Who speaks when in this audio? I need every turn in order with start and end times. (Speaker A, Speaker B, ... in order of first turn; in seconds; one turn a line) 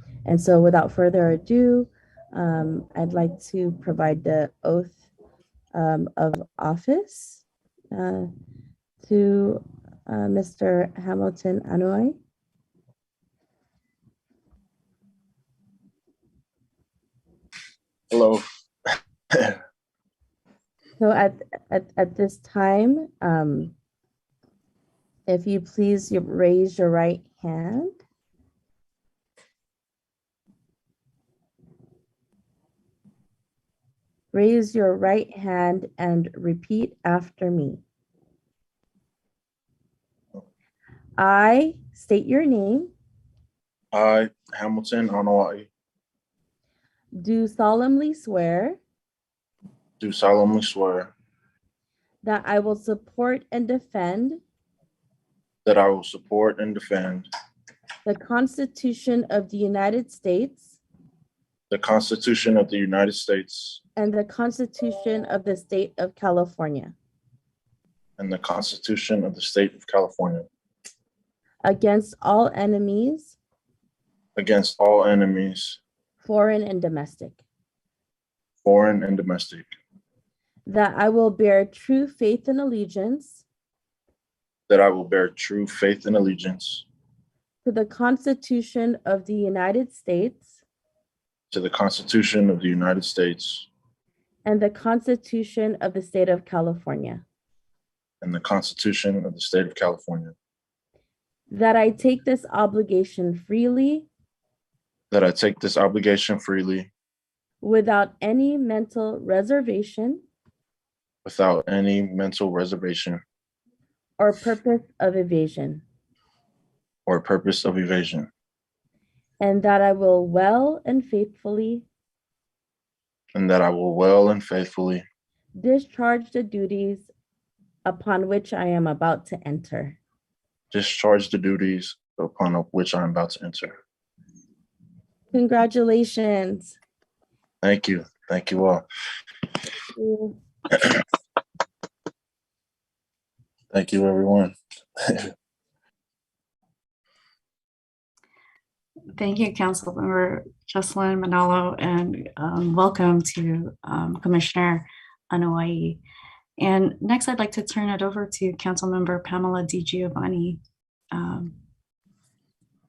Speaker A: 0.3-5.0
Speaker A: 5.7-8.3
Speaker A: 9.0-12.2
Speaker B: 18.1-18.4
Speaker A: 21.0-23.7
Speaker A: 25.3-28.0
Speaker A: 34.3-37.8
Speaker A: 41.2-42.9
Speaker B: 43.9-45.7
Speaker A: 47.1-48.8
Speaker B: 50.0-51.1
Speaker A: 52.2-54.4
Speaker B: 55.6-57.3
Speaker A: 58.0-60.8
Speaker B: 61.7-63.8
Speaker A: 64.0-67.0
Speaker B: 68.2-70.5
Speaker A: 71.6-73.4
Speaker B: 74.4-75.8
Speaker A: 76.2-77.4
Speaker B: 78.6-79.7
Speaker A: 80.7-83.4
Speaker B: 84.7-86.8
Speaker A: 87.6-90.5
Speaker B: 91.5-93.7
Speaker A: 94.5-97.2
Speaker B: 98.2-100.3
Speaker A: 101.5-104.1
Speaker B: 105.1-106.9
Speaker A: 107.6-110.2
Speaker B: 111.2-113.2
Speaker A: 114.2-115.8
Speaker B: 117.1-118.3
Speaker A: 119.4-121.9
Speaker B: 123.3-125.0
Speaker A: 125.6-127.1
Speaker A: 127.8-130.0
Speaker B: 130.7-133.8
Speaker A: 135.3-136.8
Speaker B: 137.6-138.8
Speaker A: 140.0-140.4
Speaker B: 143.7-145.3
Speaker C: 149.2-156.0
Speaker C: 156.6-160.6
Speaker C: 161.1-161.5